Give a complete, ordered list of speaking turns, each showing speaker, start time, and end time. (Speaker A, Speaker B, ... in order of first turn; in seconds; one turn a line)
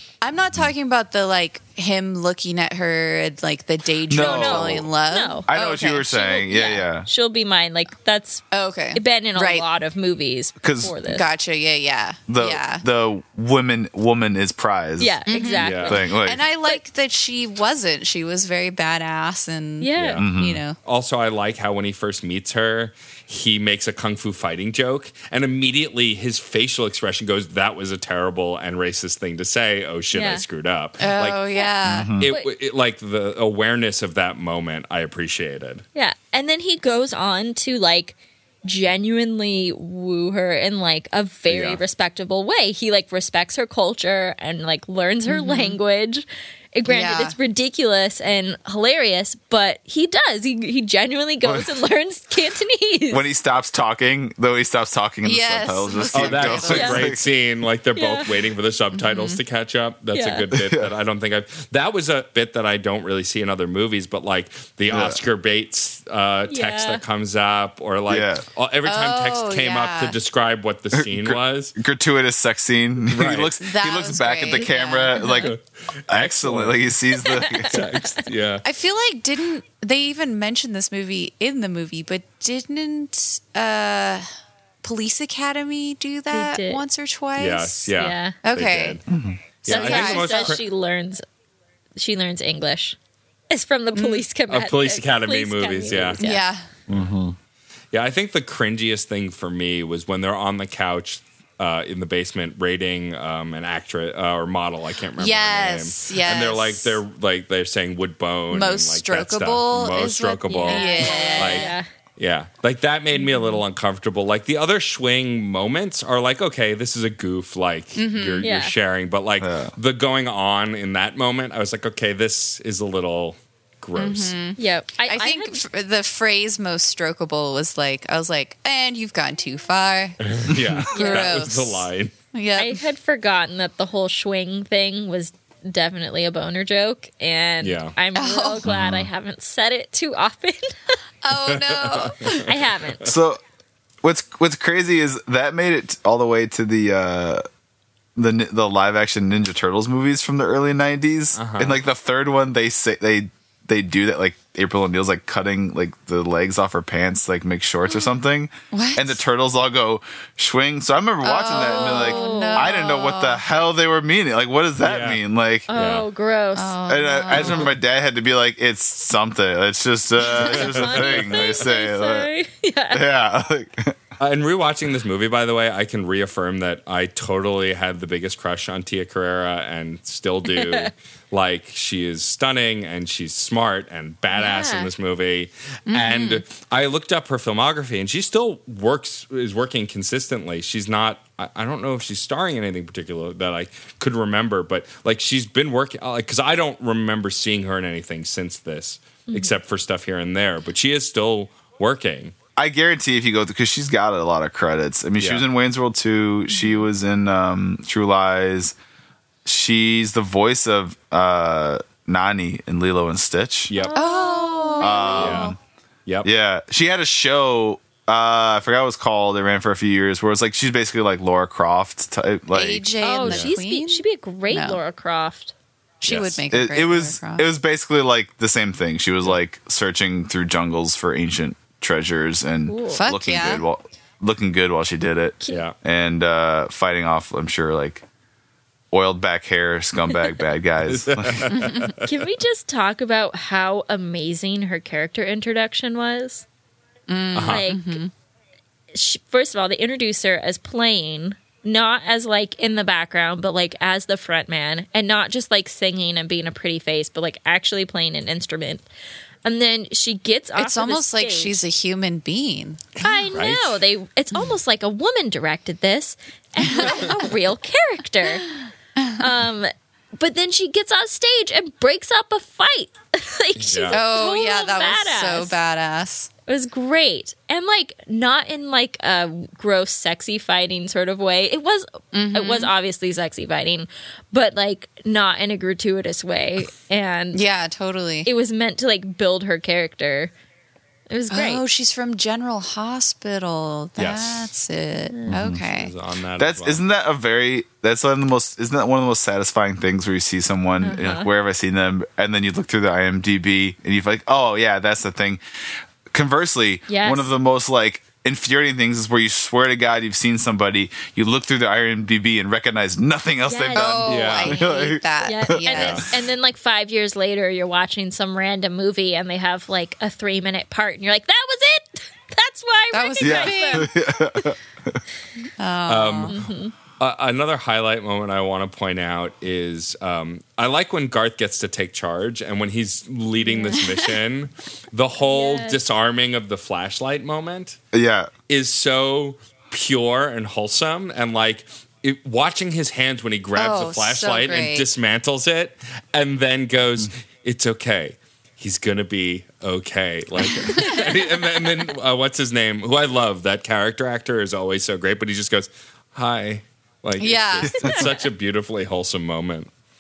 Speaker A: 0.2-6.2
Speaker B: 4.1-4.9
Speaker C: 4.2-5.5
Speaker B: 5.5-7.1
Speaker C: 6.0-11.3
Speaker A: 8.5-9.7
Speaker B: 10.6-11.0
Speaker A: 11.0-12.8
Speaker B: 12.3-15.2
Speaker C: 15.0-16.1
Speaker A: 15.3-20.8
Speaker D: 15.6-16.0
Speaker B: 15.8-16.4
Speaker C: 19.8-20.2
Speaker D: 20.0-20.3
Speaker B: 20.2-20.6
Speaker D: 20.9-31.4
Speaker C: 30.1-30.4
Speaker A: 31.0-32.1
Speaker C: 31.5-32.5
Speaker B: 31.9-32.3
Speaker D: 32.1-35.8
Speaker C: 36.0-53.3
Speaker D: 41.5-41.8
Speaker A: 45.3-45.8
Speaker A: 46.9-47.3
Speaker B: 51.4-51.7
Speaker B: 53.1-57.2
Speaker A: 55.2-57.0
Speaker D: 56.1-71.7
Speaker C: 56.7-57.0
Speaker C: 58.0-58.4
Speaker A: 59.0-59.4
Speaker C: 60.1-60.4
Speaker B: 60.5-60.9
Speaker B: 64.9-65.2
Speaker C: 66.5-67.0
Speaker B: 68.1-68.5
Speaker A: 68.9-70.2
Speaker B: 70.9-75.5
Speaker D: 73.1-73.5
Speaker A: 73.6-75.4
Speaker C: 75.2-75.5
Speaker D: 75.4-76.8
Speaker B: 76.1-78.0
Speaker C: 77.2-78.0
Speaker D: 77.6-78.6
Speaker A: 78.6-84.3
Speaker A: 84.8-87.9
Speaker C: 86.3-86.8
Speaker D: 87.4-89.0
Speaker C: 88.0-88.4
Speaker A: 88.4-89.0
Speaker B: 89.1-89.4
Speaker D: 89.6-90.6
Speaker A: 89.7-90.6
Speaker C: 89.7-91.2
Speaker C: 92.0-93.0
Speaker C: 93.5-96.4
Speaker A: 93.9-94.3
Speaker D: 94.5-96.3
Speaker A: 96.2-96.7
Speaker D: 96.9-97.2
Speaker B: 96.9-97.3
Speaker D: 97.9-124.3
Speaker A: 105.2-107.0
Speaker A: 108.5-111.8
Speaker C: 110.5-111.9
Speaker A: 113.3-113.5
Speaker A: 118.0-118.5
Speaker C: 118.4-118.8
Speaker B: 119.4-119.7
Speaker A: 124.0-130.2
Speaker C: 124.6-125.6
Speaker D: 130.2-132.1
Speaker C: 130.9-131.4
Speaker A: 130.9-132.8
Speaker C: 132.6-141.0
Speaker D: 137.6-137.9
Speaker A: 138.2-138.7
Speaker B: 138.7-139.1
Speaker A: 141.2-142.4
Speaker D: 141.5-142.5
Speaker C: 142.2-143.1
Speaker B: 143.0-143.4
Speaker B: 144.0-147.4
Speaker B: 148.2-165.7
Speaker D: 151.4-151.8
Speaker A: 158.7-159.2
Speaker A: 161.2-163.4
Speaker C: 161.5-162.7
Speaker D: 164.8-166.1
Speaker C: 165.7-166.8
Speaker A: 166.6-167.7
Speaker B: 166.9-172.3
Speaker C: 167.4-167.7
Speaker C: 170.3-173.1
Speaker D: 170.3-171.5
Speaker B: 172.9-174.0
Speaker D: 174.2-202.3
Speaker C: 180.5-180.9
Speaker C: 184.4-184.9
Speaker A: 185.9-186.4
Speaker C: 199.3-199.6
Speaker B: 202.6-208.8
Speaker B: 209.4-213.7
Speaker D: 213.7-214.0
Speaker C: 213.7-215.4
Speaker A: 213.9-215.6
Speaker B: 214.8-215.6
Speaker D: 215.1-215.5
Speaker B: 216.2-222.9
Speaker A: 222.5-224.8
Speaker C: 223.0-225.5
Speaker D: 223.2-223.5
Speaker A: 226.0-227.5
Speaker D: 226.0-226.4
Speaker B: 226.5-238.0
Speaker C: 232.7-233.1
Speaker A: 232.9-233.6
Speaker D: 235.5-235.8
Speaker B: 238.9-241.7
Speaker D: 240.9-242.2
Speaker C: 242.0-246.5
Speaker A: 247.1-248.1
Speaker D: 247.3-247.7
Speaker C: 247.4-248.0
Speaker C: 248.9-258.9
Speaker C: 259.4-261.6
Speaker A: 260.6-262.9
Speaker D: 263.0-263.8
Speaker C: 263.0-268.5
Speaker A: 266.7-267.1
Speaker A: 269.0-269.2
Speaker C: 269.2-275.6
Speaker D: 273.6-274.0
Speaker A: 273.9-276.3
Speaker C: 276.5-287.4
Speaker A: 282.1-282.7
Speaker A: 287.3-288.3
Speaker C: 288.2-290.3
Speaker C: 291.1-291.6
Speaker A: 291.3-295.9
Speaker D: 294.0-294.5
Speaker B: 295.3-295.6
Speaker D: 295.6-296.8
Speaker B: 296.4-305.4
Speaker C: 300.8-301.3
Speaker B: 306.1-315.6
Speaker C: 306.9-307.3
Speaker C: 313.4-324.1
Speaker A: 313.7-316.2
Speaker D: 314.1-314.6
Speaker D: 315.7-316.1
Speaker A: 322.9-323.9
Speaker B: 323.2-325.0
Speaker A: 325.6-326.4
Speaker D: 325.9-326.4
Speaker C: 326.3-326.7
Speaker D: 327.0-337.8
Speaker C: 333.4-333.9
Speaker C: 335.2-335.8
Speaker B: 337.9-338.3
Speaker D: 338.5-359.7
Speaker A: 343.6-344.9
Speaker A: 350.5-351.1
Speaker A: 357.2-358.1